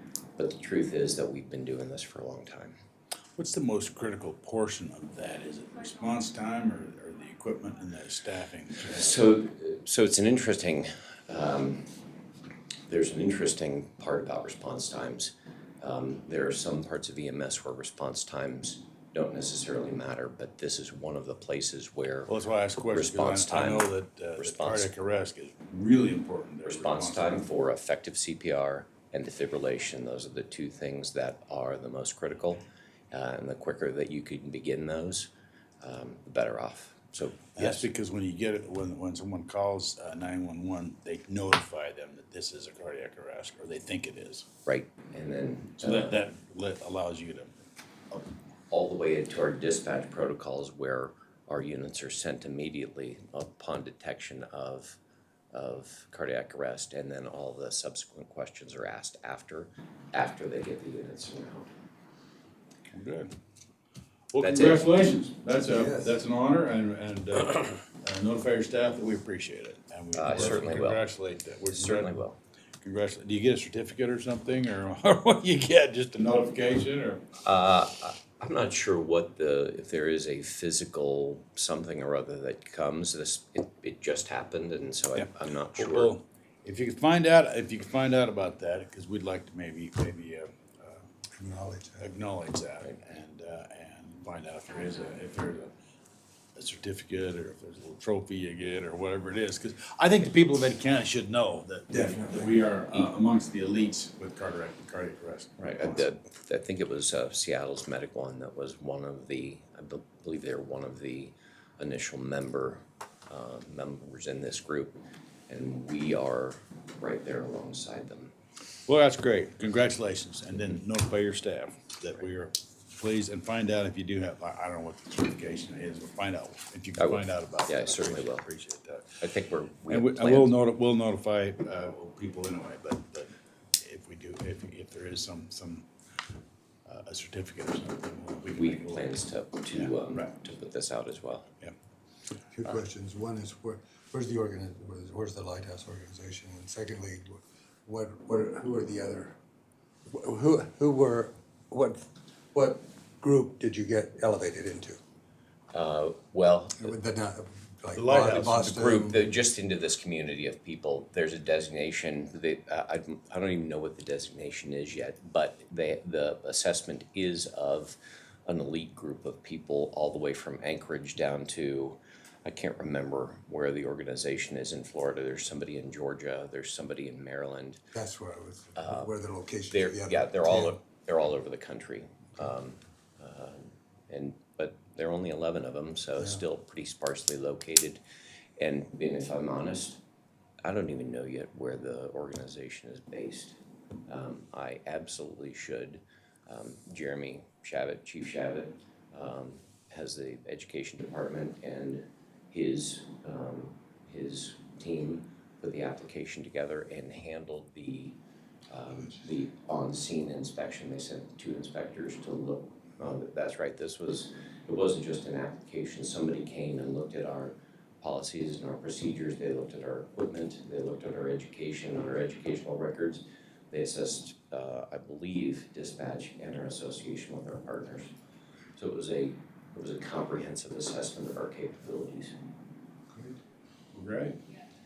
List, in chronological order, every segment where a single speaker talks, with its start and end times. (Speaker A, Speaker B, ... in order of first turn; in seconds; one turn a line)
Speaker A: 0.4-2.8
Speaker B: 3.4-9.1
Speaker A: 8.9-11.9
Speaker A: 12.9-24.9
Speaker B: 22.3-27.4
Speaker A: 26.7-35.3
Speaker A: 35.8-37.9
Speaker B: 37.5-44.5
Speaker A: 44.7-46.2
Speaker B: 45.8-47.5
Speaker A: 48.7-55.0
Speaker A: 55.5-61.7
Speaker B: 62.9-63.3
Speaker B: 64.3-72.2
Speaker A: 64.4-64.9
Speaker C: 65.7-66.2
Speaker A: 70.1-71.0
Speaker A: 71.7-72.4
Speaker B: 72.8-77.2
Speaker A: 77.4-86.1
Speaker B: 85.2-91.1
Speaker C: 91.3-92.1
Speaker B: 92.0-95.7
Speaker B: 96.5-106.0
Speaker C: 101.9-102.5
Speaker A: 105.6-115.0
Speaker A: 115.5-118.3
Speaker B: 118.9-129.2
Speaker A: 127.0-128.5
Speaker A: 129.2-130.6
Speaker B: 129.9-135.9
Speaker B: 136.9-139.1
Speaker A: 138.5-141.5
Speaker B: 139.7-140.3
Speaker C: 142.5-149.3
Speaker C: 150.1-155.0
Speaker A: 155.7-157.0
Speaker C: 156.8-159.2
Speaker B: 157.9-158.7
Speaker A: 158.6-177.8
Speaker C: 177.9-180.8
Speaker A: 178.8-179.1
Speaker A: 179.7-188.0
Speaker A: 188.6-190.0
Speaker A: 190.6-208.2
Speaker A: 208.7-228.1
Speaker A: 228.8-232.3
Speaker C: 233.1-233.4
Speaker B: 233.9-234.4